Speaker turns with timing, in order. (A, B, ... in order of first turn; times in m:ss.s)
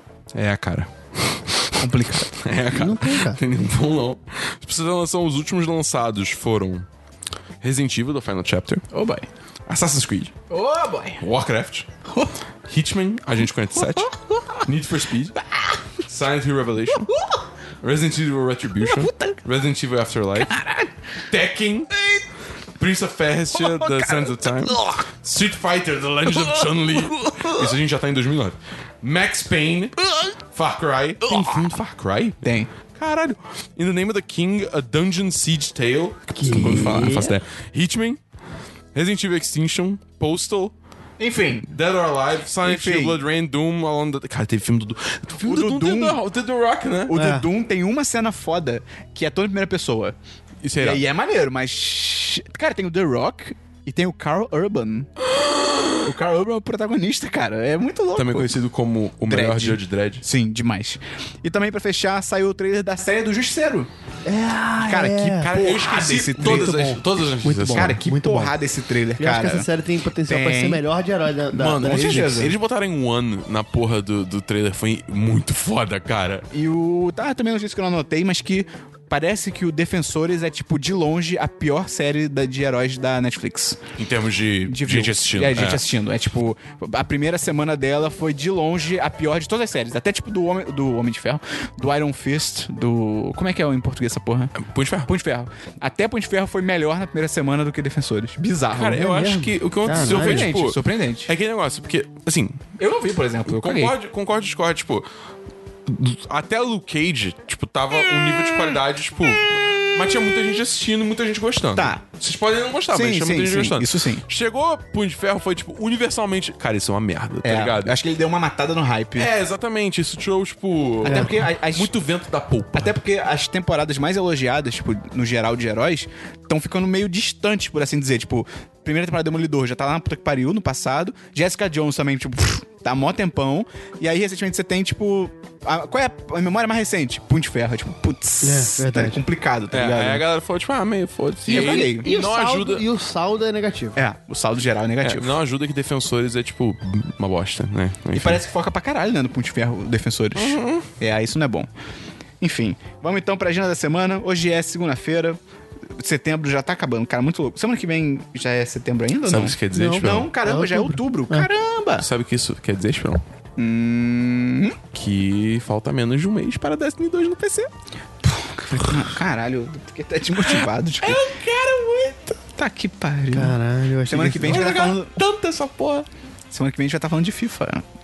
0:00.3-0:01.8 A
0:01.8-0:02.4 B
0:02.4-0:06.9 A
0:02.7-0:03.4 C
0:07.6-0:08.9 A
0:08.9-0:09.3 B
0:09.7-0:10.4 A
0:10.5-0:11.2 B
0:11.2-0:11.9 A
0:12.1-0:12.4 B
0:12.7-0:15.4 A
0:13.7-0:14.7 B
0:15.4-0:15.8 B
0:16.0-0:17.1 A
0:16.9-0:17.4 B
0:17.8-0:20.6 A
0:18.8-0:19.4 B
0:20.4-0:20.9 B
0:21.3-0:21.9 A
0:22.0-0:22.2 B
0:22.8-0:38.2 A
0:23.5-0:25.0 B
0:26.3-0:27.7 B
0:31.3-0:31.7 B
0:32.4-0:32.7 B
0:36.4-0:37.3 C
0:36.5-0:37.4 B
0:39.0-0:40.7 A
0:41.2-0:41.7 B
0:41.7-0:47.2 A
0:42.6-0:43.2 B
0:45.4-0:46.2 B
0:47.1-0:50.2 B
0:47.1-0:47.5 C
0:50.6-0:51.0 A
0:50.8-0:55.1 B
0:55.2-0:56.0 A
0:56.0-0:58.6 B
0:58.2-1:00.2 A
0:59.3-1:03.9 B
1:04.3-1:05.5 C
1:04.8-1:07.0 B
1:05.4-1:08.0 A
1:06.4-1:08.6 C
1:07.7-1:09.7 B
1:09.2-1:12.5 C
1:10.3-1:10.8 B
1:11.5-1:16.4 A
1:11.8-1:12.6 B
1:16.5-1:23.8 B
1:24.0-1:25.8 A
1:24.7-1:39.1 B
1:34.6-1:35.1 A
1:38.7-1:42.6 A
1:39.0-1:40.5 C
1:39.9-1:41.3 B
1:42.8-1:44.0 B
1:43.5-1:45.1 A
1:45.9-1:58.0 A
1:51.8-1:52.0 B
1:52.9-1:54.2 B
1:57.4-1:59.3 B
1:59.2-2:03.0 A
2:01.0-2:01.9 B
2:02.7-2:20.2 B
2:18.4-2:19.2 C
2:19.7-2:22.8 A
2:21.5-2:22.1 B
2:21.5-2:24.0 C
2:24.0-2:25.3 B
2:25.0-2:28.4 A
2:28.1-2:31.7 B
2:30.4-2:30.9 A
2:32.4-2:35.4 B
2:35.9-2:42.1 B
2:39.3-2:40.3 A
2:39.7-2:41.5 C
2:42.0-2:43.2 A
2:43.6-2:44.8 B
2:44.9-2:47.7 A
2:48.2-2:51.2 B
2:51.0-2:52.4 A
2:52.6-2:55.2 B
2:53.3-2:54.7 C
2:54.5-2:56.1 A
2:56.5-2:57.8 B